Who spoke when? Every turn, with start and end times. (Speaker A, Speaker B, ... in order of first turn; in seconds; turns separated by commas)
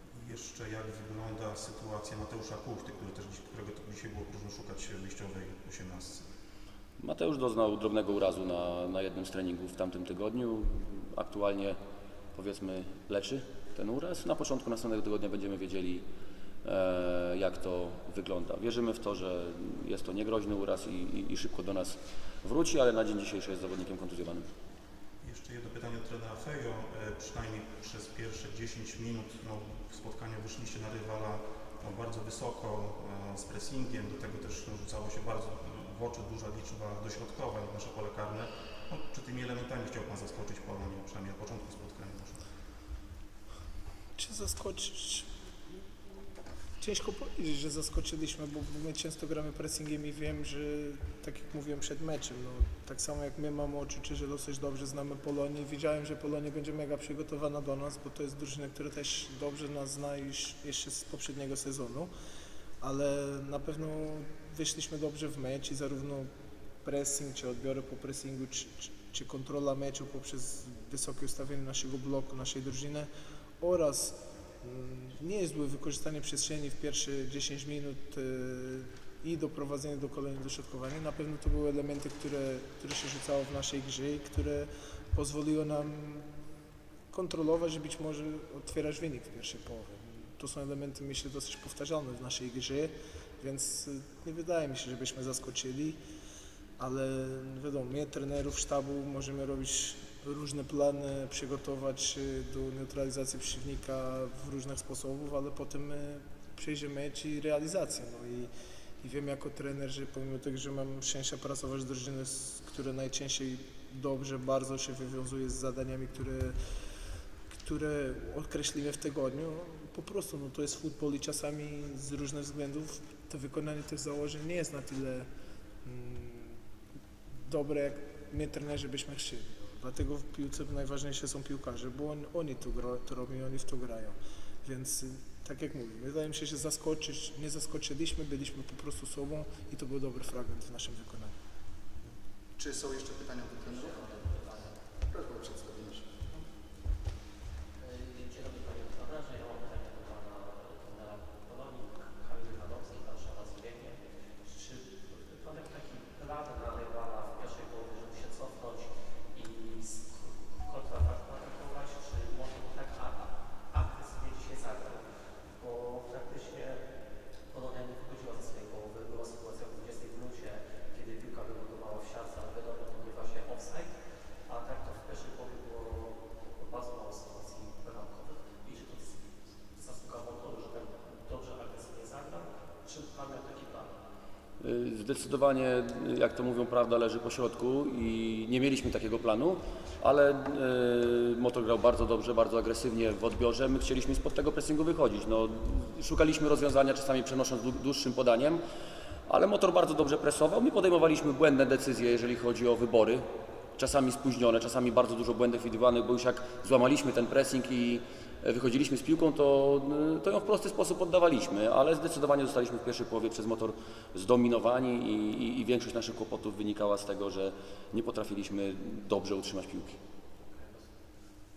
Speaker A: 0.1-6.2, Speaker B: 7.0-11.8, Speaker B: 12.3-16.1, Speaker B: 16.6-24.5, Speaker A: 25.2-42.4, Speaker C: 44.1-45.3, Speaker C: 46.8-62.1, Speaker C: 62.8-66.3, Speaker C: 66.8-73.1, Speaker C: 73.6-86.2, Speaker C: 87.1-96.0, Speaker C: 96.8-116.5, Speaker C: 117.5-125.3, Speaker C: 125.8-126.6, Speaker C: 127.4-141.3, Speaker D: 142.6-144.3, Speaker E: 143.7-144.8, Speaker D: 145.1-146.1, Speaker E: 147.8-166.8, Speaker E: 167.5-173.9, Speaker E: 174.5-184.0, Speaker B: 184.6-198.6, Speaker B: 199.3-220.0, Speaker E: 220.4-220.8